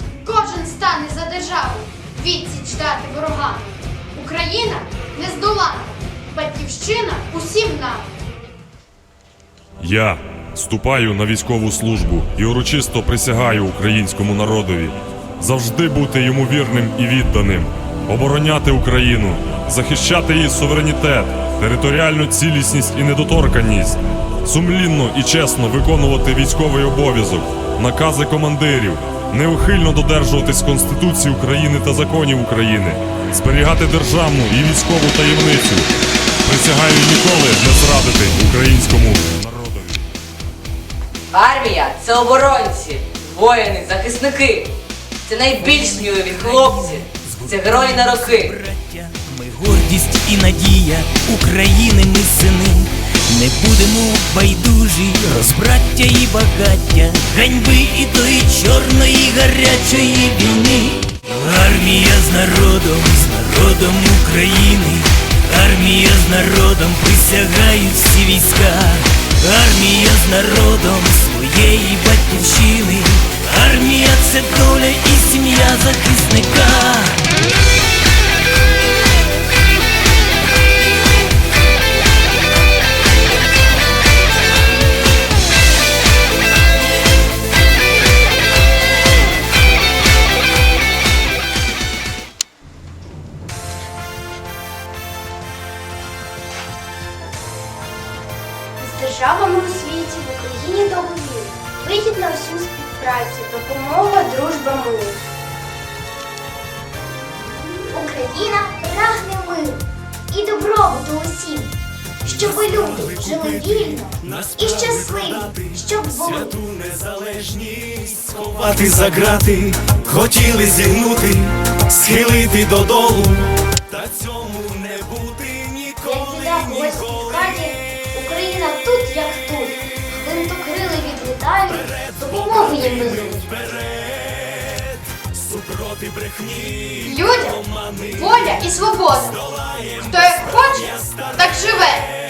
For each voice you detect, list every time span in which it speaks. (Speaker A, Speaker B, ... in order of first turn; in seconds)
Speaker A: 0.2-8.1, 137.0-137.6, 138.1-139.4, 140.0-142.1
Speaker B: 9.8-35.9, 36.4-40.0
Speaker C: 41.3-44.7, 45.3-48.5
Speaker D: 45.6-77.2
Speaker E: 98.8-105.2, 107.9-111.7, 112.2-116.5, 126.0-133.5
Speaker F: 114.2-115.6, 116.2-127.1, 133.8-134.5, 135.2-138.2, 139.5-140.2, 140.8-141.1